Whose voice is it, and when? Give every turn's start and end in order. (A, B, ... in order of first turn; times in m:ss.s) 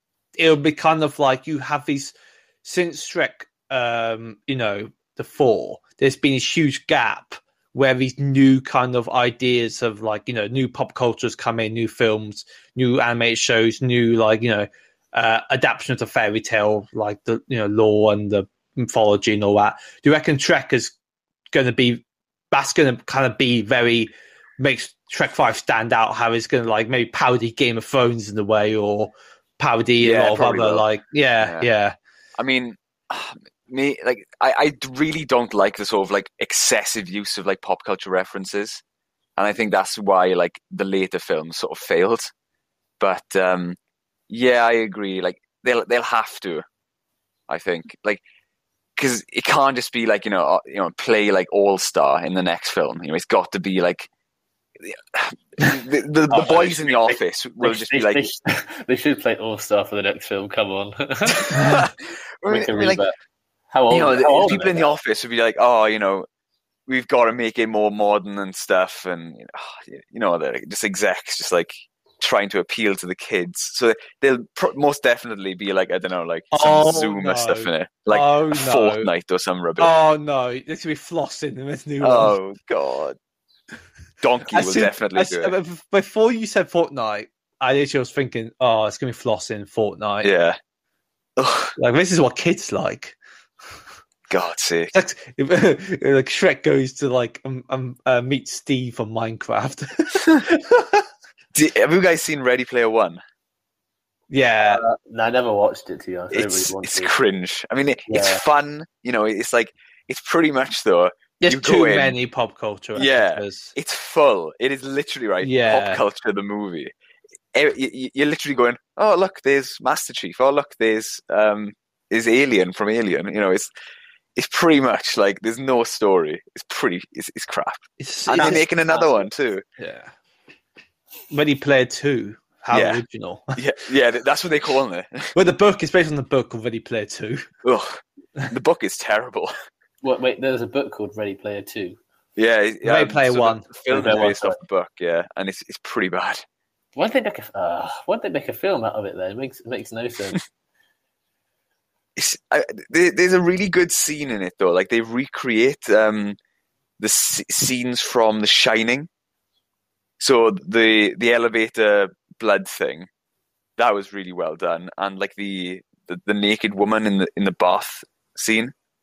0:00.4-0:20.9 A
0:21.5-0:32.0 A
0:30.0-0:30.8 B
0:31.4-0:31.7 B
0:32.4-0:38.8 B
0:39.4-0:42.3 B
0:43.0-0:43.8 B
0:44.3-0:46.6 B
0:47.5-0:48.2 B
0:49.0-0:54.1 B
0:54.8-0:58.2 B
0:56.3-1:01.9 C
1:01.4-1:01.9 B
1:02.4-1:03.0 B
1:02.5-1:03.1 C
1:03.7-1:04.9 C
1:03.9-1:06.3 B
1:06.9-1:19.9 B
1:16.5-1:19.1 A
1:19.8-1:22.4 A
1:22.0-1:23.2 B
1:24.2-1:25.5 B
1:24.5-1:30.3 A
1:30.2-1:30.6 B
1:31.4-1:31.7 B
1:31.8-1:33.2 A
1:34.3-1:34.9 B
1:34.9-1:41.0 A
1:41.5-1:43.2 B
1:44.3-1:44.8 A
1:44.6-1:47.1 C
1:46.3-1:52.2 B
1:48.1-1:48.4 C
1:51.4-1:53.7 A
1:52.9-1:56.9 B
1:55.4-1:56.0 A
1:57.5-2:03.7 B
2:04.4-2:09.6 B
2:08.0-2:08.6 A
2:08.4-2:09.3 C
2:09.8-2:10.1 A
2:11.3-2:13.6 A
2:12.7-2:13.0 B
2:13.6-2:15.3 B
2:15.3-2:17.4 A
2:17.6-2:19.5 B
2:20.0-2:22.0 C
2:22.4-2:26.4 B
2:22.8-2:23.7 A
2:23.9-2:24.6 C
2:26.9-2:30.4 C
2:32.2-2:36.4 B
2:37.0-2:39.1 B
2:40.2-2:43.1 B
2:43.8-2:48.7 B